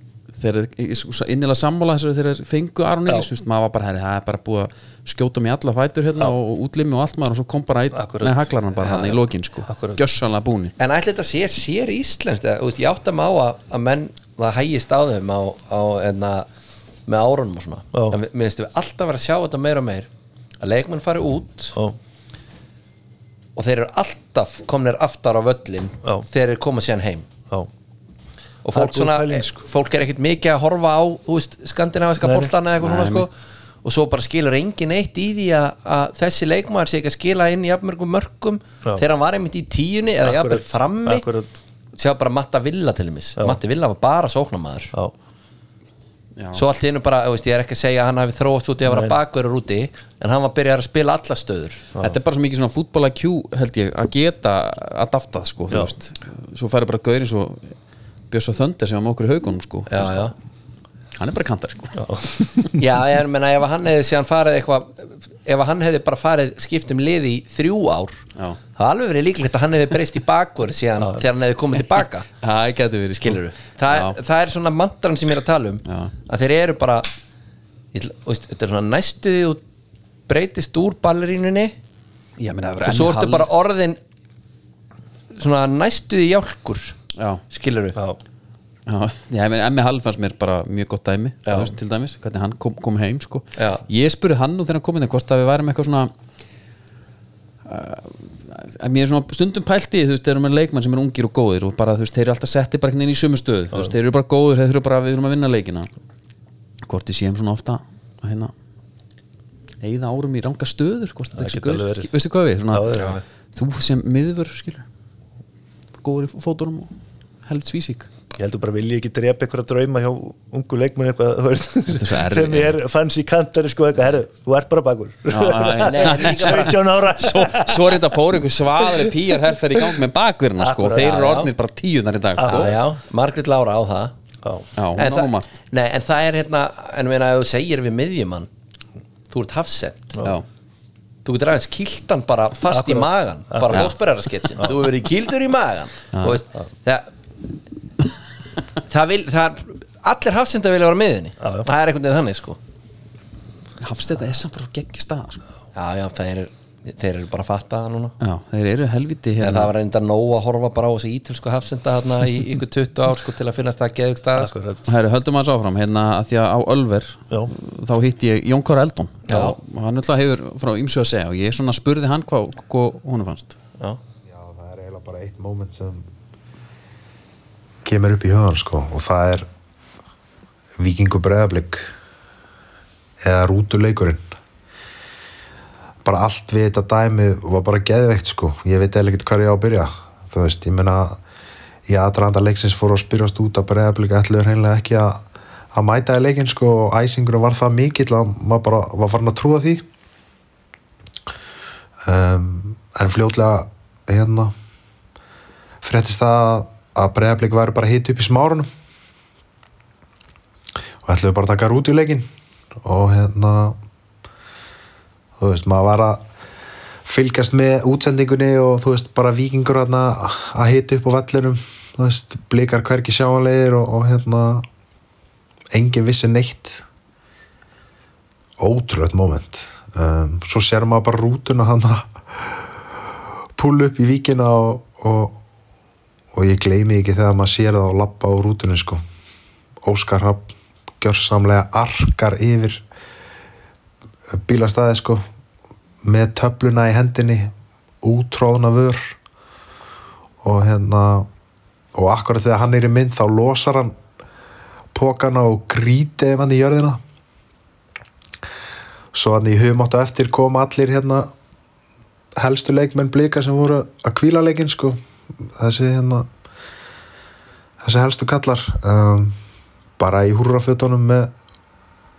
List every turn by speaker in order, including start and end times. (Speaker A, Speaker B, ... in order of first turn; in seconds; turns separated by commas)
Speaker A: 0.3-10.7, Speaker B: 7.9-8.4, Speaker C: 8.8-9.2, Speaker B: 9.7-10.0, Speaker C: 10.8-16.5, Speaker C: 17.1-20.1, Speaker B: 17.9-18.2, Speaker C: 20.6-21.7, Speaker C: 23.6-27.3, Speaker C: 28.6-33.3, Speaker B: 28.7-29.6, Speaker B: 32.2-32.5, Speaker A: 32.8-33.3, Speaker C: 33.8-41.3, Speaker B: 40.2-41.5, Speaker C: 42.0-44.9, Speaker A: 46.4-46.6, Speaker C: 46.5-51.8, Speaker B: 48.9-49.2, Speaker A: 52.0-57.7, Speaker A: 58.3-60.3, Speaker C: 59.9-60.3, Speaker A: 61.2-62.8, Speaker B: 62.0-62.5, Speaker C: 62.8-68.2, Speaker C: 68.8-72.3, Speaker A: 72.4-74.2, Speaker C: 73.1-77.1, Speaker A: 75.8-76.1, Speaker C: 77.9-79.6, Speaker C: 80.3-81.8, Speaker A: 82.4-83.5, Speaker C: 82.8-84.0, Speaker C: 85.3-87.0, Speaker A: 87.2-87.4, Speaker C: 87.5-88.0, Speaker A: 88.9-96.1, Speaker C: 91.5-91.7, Speaker C: 93.6-93.8, Speaker A: 97.7-105.9, Speaker A: 106.8-108.5, Speaker A: 109.8-114.8, Speaker B: 111.3-112.1, Speaker B: 112.7-113.2, Speaker A: 116.0-116.9, Speaker A: 117.5-118.1, Speaker B: 118.3-128.1, Speaker A: 121.9-122.8, Speaker A: 125.3-132.8, Speaker C: 125.8-126.7, Speaker B: 128.8-129.1, Speaker B: 130.6-131.3, Speaker C: 131.0-131.5, Speaker B: 132.4-132.8, Speaker C: 132.4-134.1, Speaker A: 134.8-135.5, Speaker C: 135.0-138.5, Speaker C: 139.3-140.2, Speaker C: 141.2-147.1, Speaker B: 142.7-143.9, Speaker A: 146.1-146.4, Speaker C: 148.9-152.6, Speaker B: 151.4-151.7, Speaker A: 153.8-155.4, Speaker C: 155.8-158.2, Speaker A: 158.2-159.7, Speaker C: 159.4-164.5, Speaker B: 164.4-164.9, Speaker A: 164.9-173.6, Speaker D: 174.3-176.1, Speaker D: 177.8-179.5, Speaker D: 180.8-181.9, Speaker D: 183.2-184.3, Speaker D: 186.1-191.2, Speaker D: 191.9-199.8, Speaker D: 202.1-204.5, Speaker D: 205.8-208.7, Speaker D: 211.0-212.3, Speaker D: 212.8-213.8, Speaker D: 215.4-216.2, Speaker D: 217.1-224.7, Speaker D: 225.7-226.8, Speaker D: 228.6-232.6, Speaker D: 233.6-235.4, Speaker D: 236.3-239.0, Speaker D: 239.8-242.8, Speaker D: 244.4-245.2, Speaker D: 246.0-249.2, Speaker D: 250.4-251.3, Speaker D: 251.9-254.0, Speaker D: 254.9-257.0, Speaker D: 259.1-261.3, Speaker D: 262.4-266.3, Speaker D: 267.8-269.4, Speaker D: 270.0-271.3